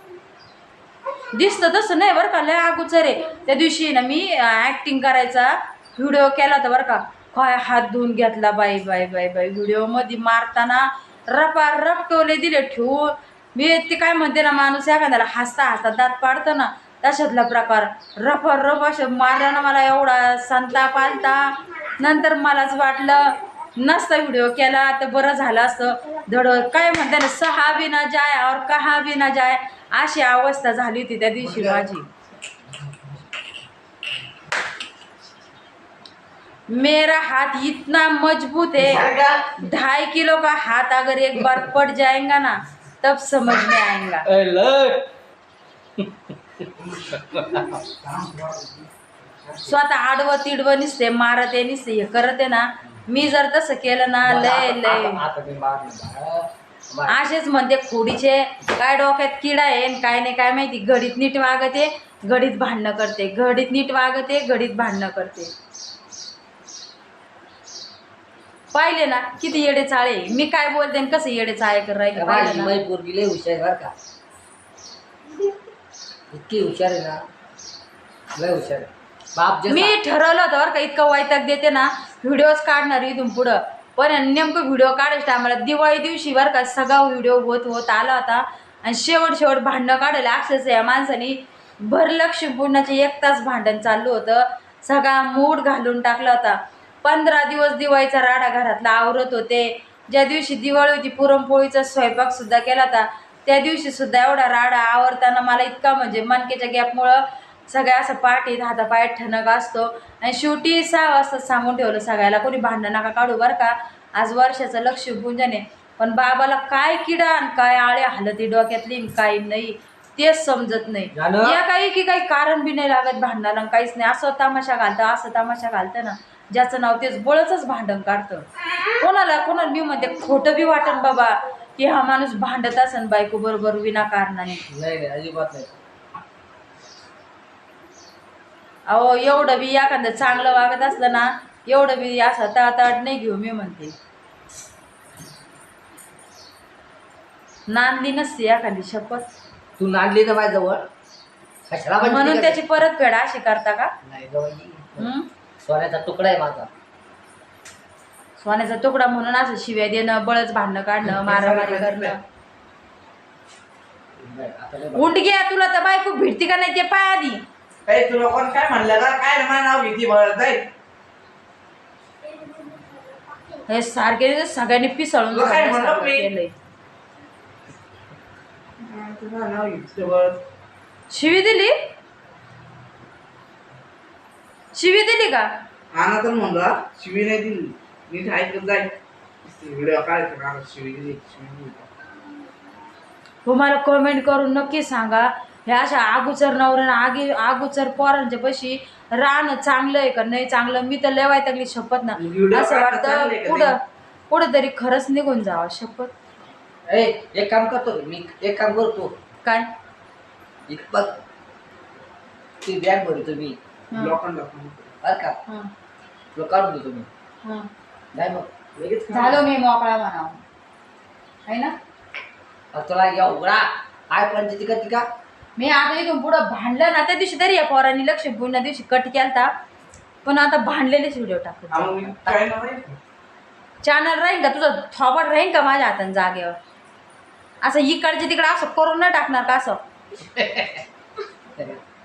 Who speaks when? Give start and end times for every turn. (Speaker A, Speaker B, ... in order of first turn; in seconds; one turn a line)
Speaker A: 1.3-32.1
Speaker B: 31.5-31.8
Speaker A: 36.7-44.3
Speaker B: 38.8-39.5
Speaker C: 44.2-45.1
Speaker C: 46.0-46.7
Speaker B: 46.9-48.9
Speaker A: 49.6-55.2
Speaker C: 54.2-57.2
Speaker A: 57.1-65.5
Speaker A: 68.7-72.8
Speaker C: 72.2-73.9
Speaker C: 76.3-77.2
Speaker C: 78.3-80.0
Speaker A: 79.7-134.7
Speaker C: 121.1-121.6
Speaker C: 134.7-135.8
Speaker A: 138.9-143.9
Speaker A: 147.7-149.2
Speaker C: 149.8-150.8
Speaker C: 151.7-152.6
Speaker A: 152.0-153.9
Speaker C: 154.0-155.1
Speaker A: 155.0-155.3
Speaker C: 155.6-156.7
Speaker A: 158.4-162.2
Speaker B: 161.1-162.2
Speaker C: 164.2-165.1
Speaker A: 164.9-167.4
Speaker B: 167.9-170.7
Speaker A: 173.7-176.5
Speaker B: 175.3-176.3
Speaker B: 178.8-180.4
Speaker A: 181.1-181.8
Speaker A: 184.7-185.5
Speaker B: 185.9-191.9
Speaker A: 193.4-206.1
Speaker B: 202.2-203.8
Speaker C: 206.9-209.1
Speaker C: 210.7-211.2
Speaker C: 212.6-213.6
Speaker A: 213.9-214.2
Speaker B: 213.9-214.9
Speaker C: 215.0-215.4
Speaker A: 215.4-215.7
Speaker C: 216.3-217.1
Speaker A: 217.4-217.7
Speaker C: 218.1-219.4
Speaker B: 218.9-219.3
Speaker A: 219.1-220.4
Speaker A: 221.4-221.8
Speaker C: 222.7-225.1
Speaker A: 225.6-229.5
Speaker A: 230.2-232.1
Speaker B: 231.7-233.0
Speaker A: 233.8-236.6
Speaker A: 237.6-239.8
Speaker C: 240.2-240.8
Speaker C: 241.6-241.8